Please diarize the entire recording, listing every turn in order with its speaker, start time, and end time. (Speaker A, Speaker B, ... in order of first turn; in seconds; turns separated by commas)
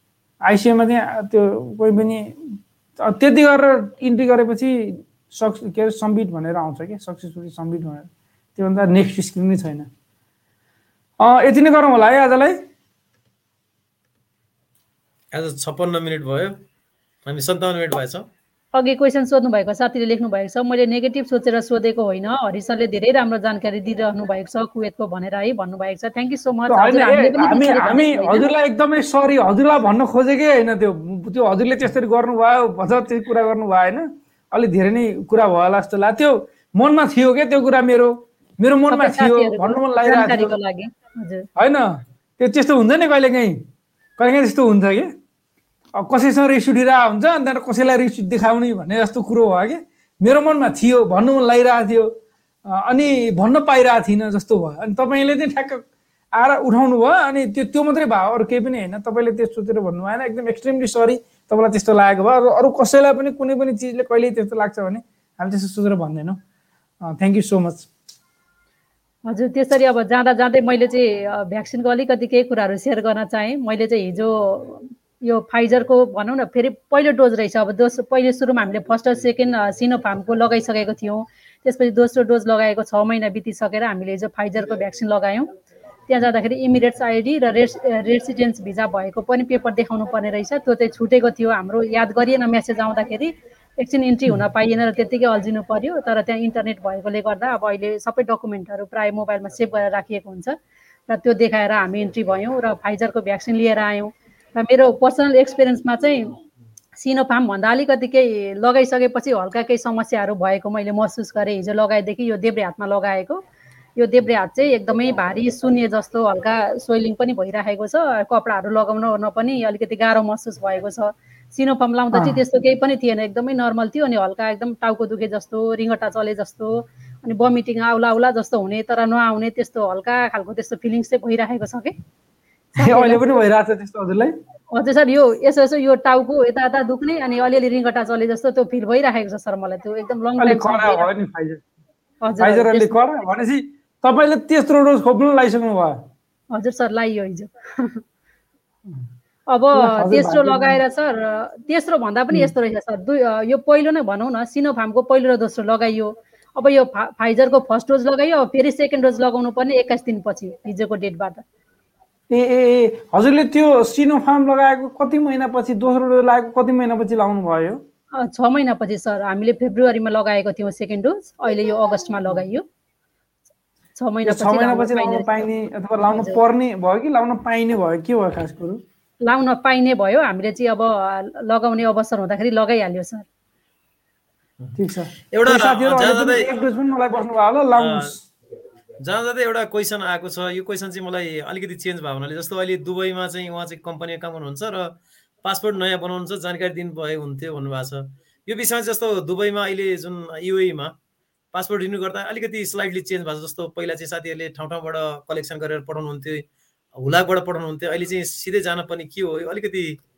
Speaker A: 0.4-9.9, Speaker A: 11.2-12.6, Speaker B: 15.3-16.6, Speaker B: 17.2-18.2, Speaker C: 18.7-28.5, Speaker A: 26.7-40.5, Speaker C: 38.9-41.5, Speaker A: 41.6-43.6, Speaker A: 44.2-45.1, Speaker A: 46.0-52.1, Speaker A: 52.7-55.8, Speaker A: 56.4-66.4, Speaker A: 67.0-67.9, Speaker C: 69.3-85.5, Speaker C: 86.1-100.5, Speaker C: 101.1-106.3, Speaker C: 107.0-113.4, Speaker C: 114.0-131.9, Speaker A: 122.1-122.4, Speaker C: 132.8-133.2, Speaker A: 132.8-134.3, Speaker C: 134.7-141.1, Speaker A: 140.4-141.6, Speaker C: 142.2-143.0, Speaker A: 142.4-146.0, Speaker C: 146.5-148.0, Speaker C: 149.5-161.4, Speaker A: 149.7-150.8, Speaker A: 162.3-167.8, Speaker C: 168.2-172.6, Speaker C: 173.9-175.4, Speaker A: 174.2-178.8, Speaker C: 176.1-176.4, Speaker C: 179.2-183.2, Speaker A: 184.8-188.2, Speaker B: 185.3-186.5, Speaker B: 187.8-188.1, Speaker B: 189.0-200.9, Speaker B: 201.5-206.4, Speaker B: 206.9-210.0